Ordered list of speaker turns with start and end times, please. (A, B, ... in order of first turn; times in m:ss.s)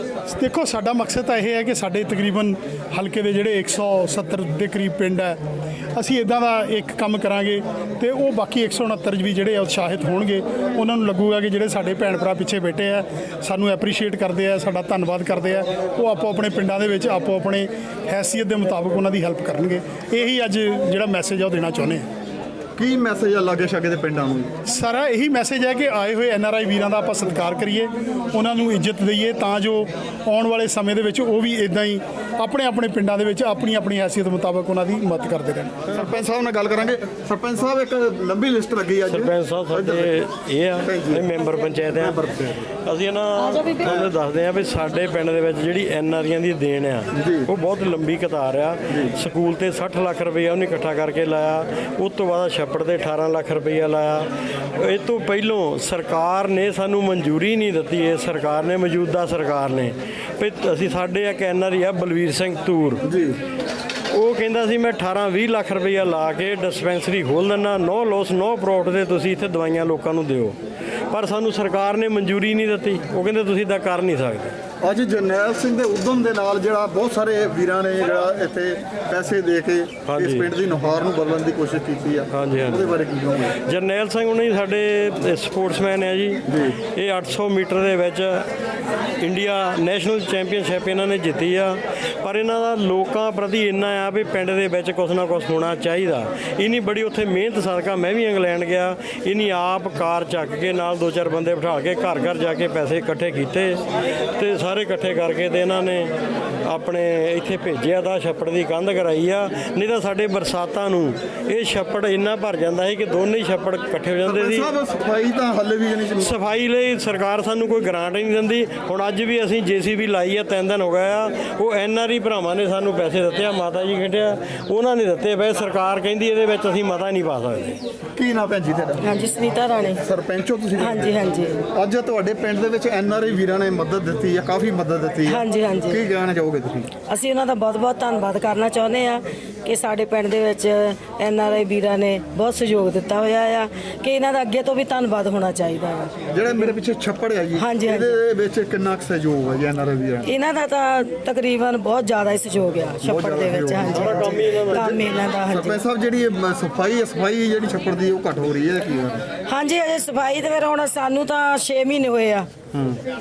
0:00.3-0:05.4 A
0:05.9-0:22.0 A
0:22.8-0:24.5 B
0:24.7-0:35.7 A
0:35.9-0:40.1 B
0:39.1-0:42.2 C
0:40.8-0:41.3 B
0:41.9-0:42.7 B
0:42.8-1:03.0 C
0:43.8-0:44.1 B
0:47.1-0:47.5 B
0:48.9-0:49.2 B
1:03.0-1:03.4 B
1:04.1-1:10.6 C
1:11.1-1:14.5 C
1:14.8-1:23.6 B
1:20.1-1:20.6 C
1:22.3-1:23.0 C
1:23.6-1:28.5 C
1:26.5-1:26.8 B
1:29.2-1:43.8 C
1:44.3-1:46.1 C
1:46.6-1:54.7 C
1:54.2-1:56.4 B
1:56.2-2:07.8 C
2:08.2-2:09.1 B
2:09.0-2:10.0 D
2:10.0-2:16.9 B
2:10.8-2:11.5 D
2:15.3-2:16.0 D
2:17.1-2:26.1 D
2:26.3-2:30.3 B
2:27.6-2:28.1 D
2:30.3-2:35.8 D
2:33.0-2:39.2 B
2:33.9-2:34.9 C
2:39.5-2:42.5 D
2:42.7-2:43.0 B